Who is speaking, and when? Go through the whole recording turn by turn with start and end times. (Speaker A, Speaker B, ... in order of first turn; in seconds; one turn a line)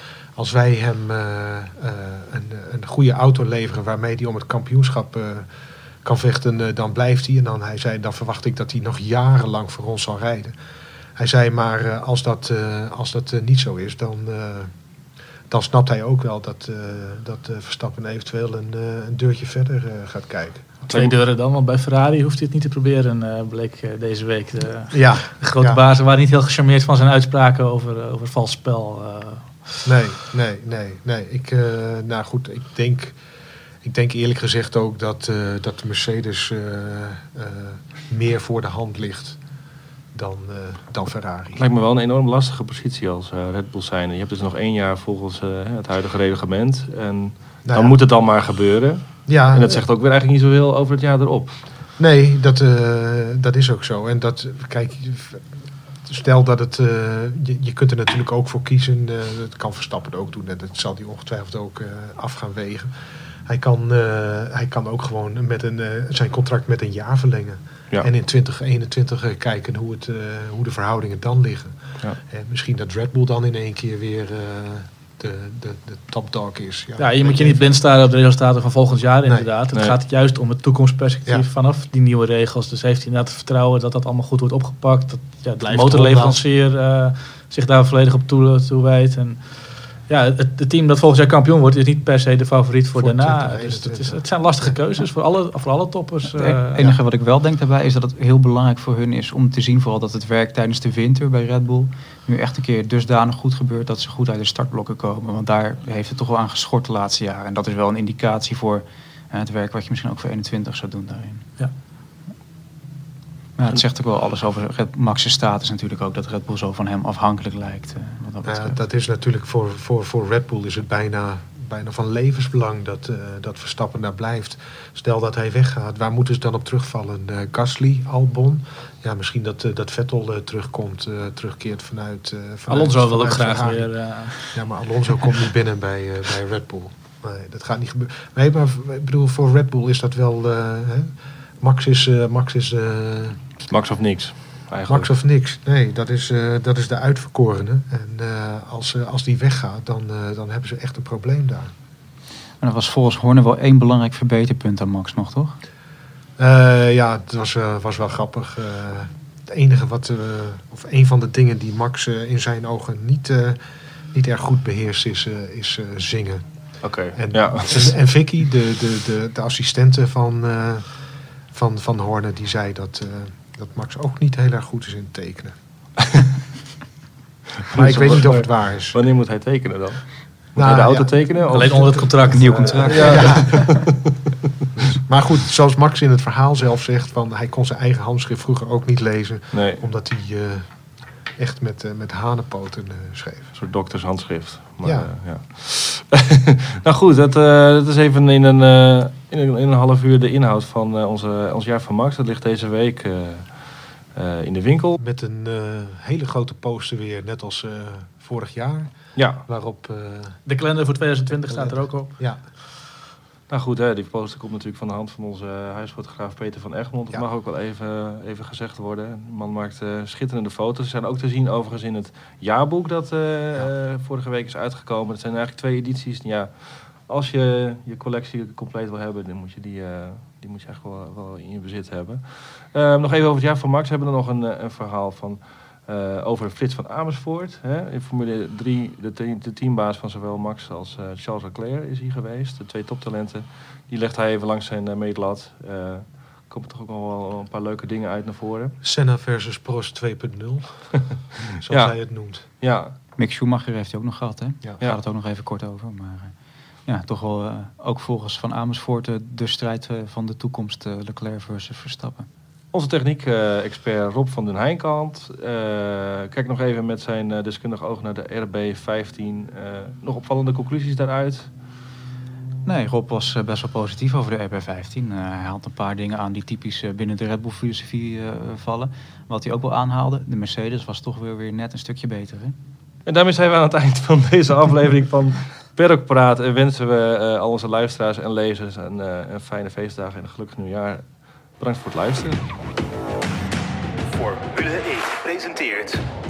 Speaker A: 0.4-5.5
Speaker A: 6.0-10.5
Speaker A: 11.2-14.7
Speaker A: 15.5-20.8
Speaker B: 20.9-21.2
Speaker C: 20.9-29.9
Speaker A: 24.9-25.8
Speaker A: 29.9-33.2
Speaker A: 33.8-39.4
Speaker A: 40.1-41.6
Speaker B: 41.5-51.7
Speaker A: 47.6-48.0
Speaker A: 49.3-49.9
Speaker A: 52.0-55.4
Speaker A: 56.0-62.9
Speaker A: 63.5-77.7
Speaker C: 77.0-96.8
Speaker A: 79.2-79.5
Speaker A: 85.6-86.4
Speaker A: 93.0-94.8
Speaker D: 96.3-111.5
Speaker D: 113.6-118.8
Speaker A: 118.5-143.5
Speaker C: 132.7-134.6
Speaker B: 143.6-145.1
Speaker A: 144.9-151.7
Speaker D: 152.6-155.6
Speaker A: 156.4-163.6
Speaker A: 164.1-176.0
Speaker B: 166.8-168.0
Speaker B: 177.7-182.3
Speaker A: 177.7-179.0
Speaker A: 180.6-182.0
Speaker C: 181.5-183.4
Speaker D: 182.3-183.7
Speaker A: 182.5-183.6
Speaker B: 182.9-183.9
Speaker A: 185.0-193.6
Speaker B: 189.5-189.8
Speaker B: 193.6-205.0
Speaker A: 194.8-195.1
Speaker A: 205.0-210.5
Speaker B: 209.2-209.4
Speaker C: 210.4-212.4
Speaker A: 211.3-212.4
Speaker B: 213.5-248.8
Speaker A: 248.8-252.5
Speaker B: 251.7-252.9
Speaker D: 253.2-256.4
Speaker D: 256.9-262.3
Speaker B: 262.7-271.5
Speaker D: 272.6-282.6
Speaker B: 283.1-292.4
Speaker E: 294.1-296.1